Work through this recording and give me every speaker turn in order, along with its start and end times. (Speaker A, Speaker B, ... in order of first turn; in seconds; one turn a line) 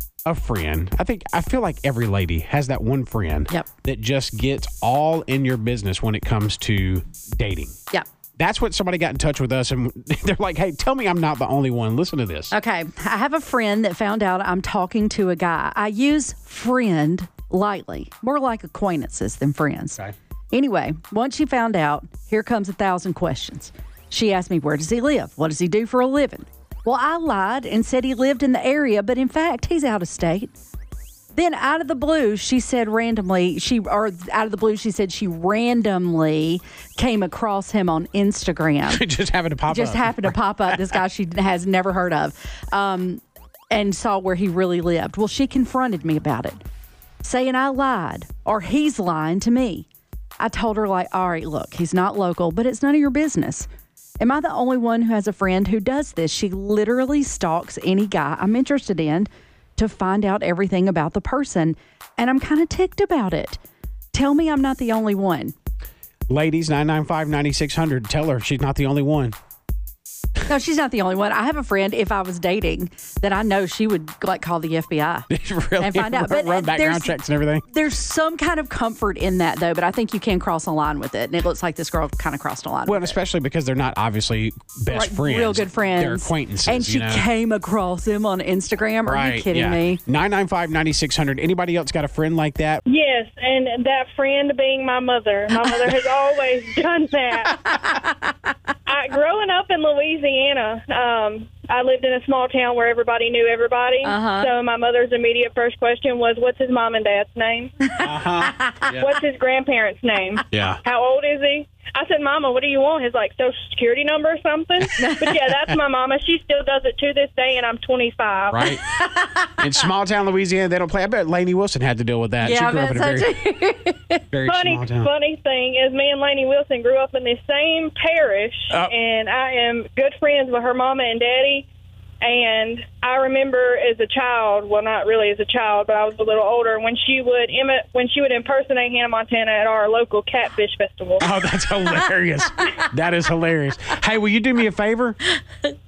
Speaker A: 0.3-7.7
Speaker A: 8.4-12.5
Speaker B: 12.5-30.5
Speaker B: 31.3-39.0
Speaker A: 38.9-41.0
Speaker B: 39.7-46.6
Speaker B: 47.2-49.9
Speaker B: 50.4-53.7
Speaker B: 54.2-63.6
Speaker B: 64.1-65.5
Speaker A: 66.3-69.3
Speaker B: 70.5-83.2
Speaker A: 75.3-77.7
Speaker A: 82.9-87.3
Speaker B: 84.9-90.0
Speaker A: 89.1-92.8
Speaker C: 92.9-97.8
Speaker B: 97.6-98.5
Speaker C: 98.9-107.7
Speaker B: 104.0-104.5
Speaker B: 107.8-108.9
Speaker A: 108.0-108.6
Speaker C: 108.9-118.8
Speaker A: 110.5-110.8
Speaker B: 115.0-115.3
Speaker A: 118.5-118.8
Speaker B: 118.7-119.8
Speaker A: 119.6-123.3
Speaker B: 122.4-124.2
Speaker A: 124.3-125.1
Speaker C: 124.5-131.7
Speaker C: 132.2-141.3
Speaker A: 141.2-145.2